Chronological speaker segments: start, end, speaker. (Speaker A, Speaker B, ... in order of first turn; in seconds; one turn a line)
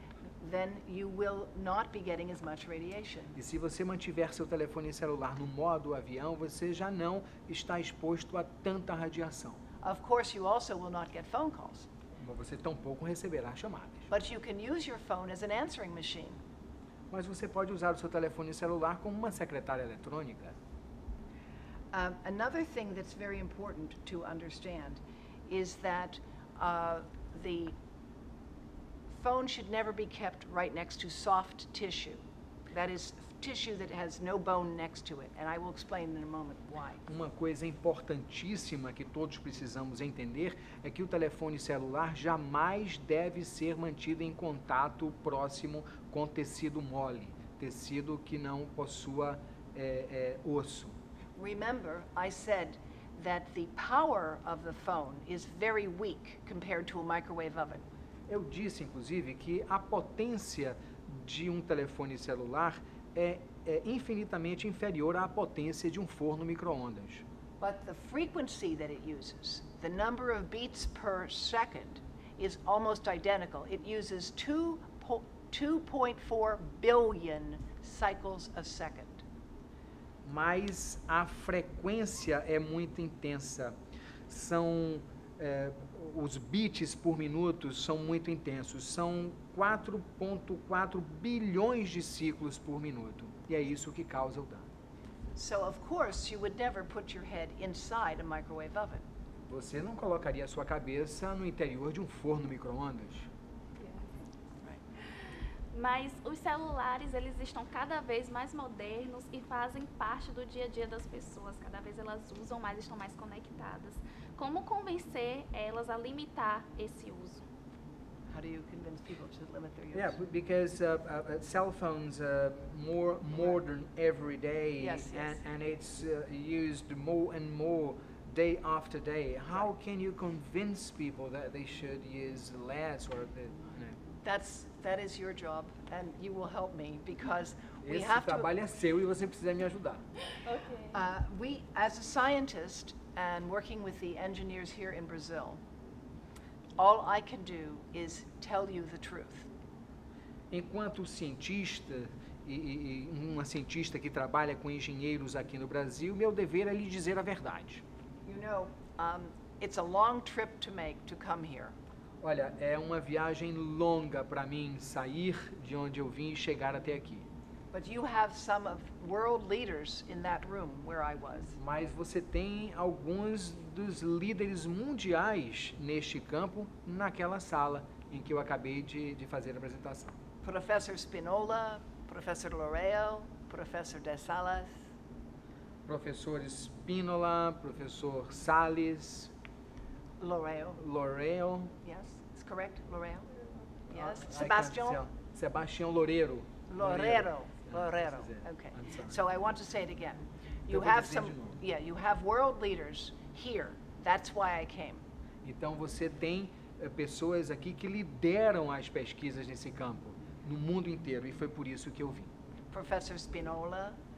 Speaker A: 0.4-3.4
Speaker B: 3.3-9.6
Speaker A: 9.8-11.9
Speaker B: 12.2-14.1
Speaker A: 14.1-16.4
Speaker B: 17.1-20.6
Speaker A: 21.9-27.7
Speaker A: 29.1-37.0
Speaker B: 37.1-51.0
Speaker A: 51.4-57.9
Speaker B: 58.3-67.2
Speaker A: 67.6-79.2
Speaker B: 80.2-83.8
Speaker B: 84.3-94.6
Speaker A: 95.3-99.0
Speaker B: 99.5-103.3
Speaker C: 105.0-117.4
Speaker A: 118.3-120.2
Speaker B: 119.9-134.0
Speaker A: 124.8-125.4
Speaker A: 134.2-138.5
Speaker B: 137.8-140.0
Speaker C: 140.4-140.9
Speaker A: 140.9-145.6
Speaker A: 146.8-149.5
Speaker B: 150.5-157.8
Speaker A: 158.3-161.7
Speaker B: 162.2-167.2
Speaker A: 167.7-171.6
Speaker B: 171.6-180.2
Speaker A: 180.4-184.8
Speaker B: 185.8-189.3
Speaker A: 190.2-190.8
Speaker B: 190.8-191.7
Speaker A: 191.8-193.3
Speaker A: 193.9-195.0
Speaker B: 193.9-199.2
Speaker A: 196.7-205.0
Speaker B: 200.7-201.6
Speaker B: 205.4-212.3
Speaker A: 212.7-214.0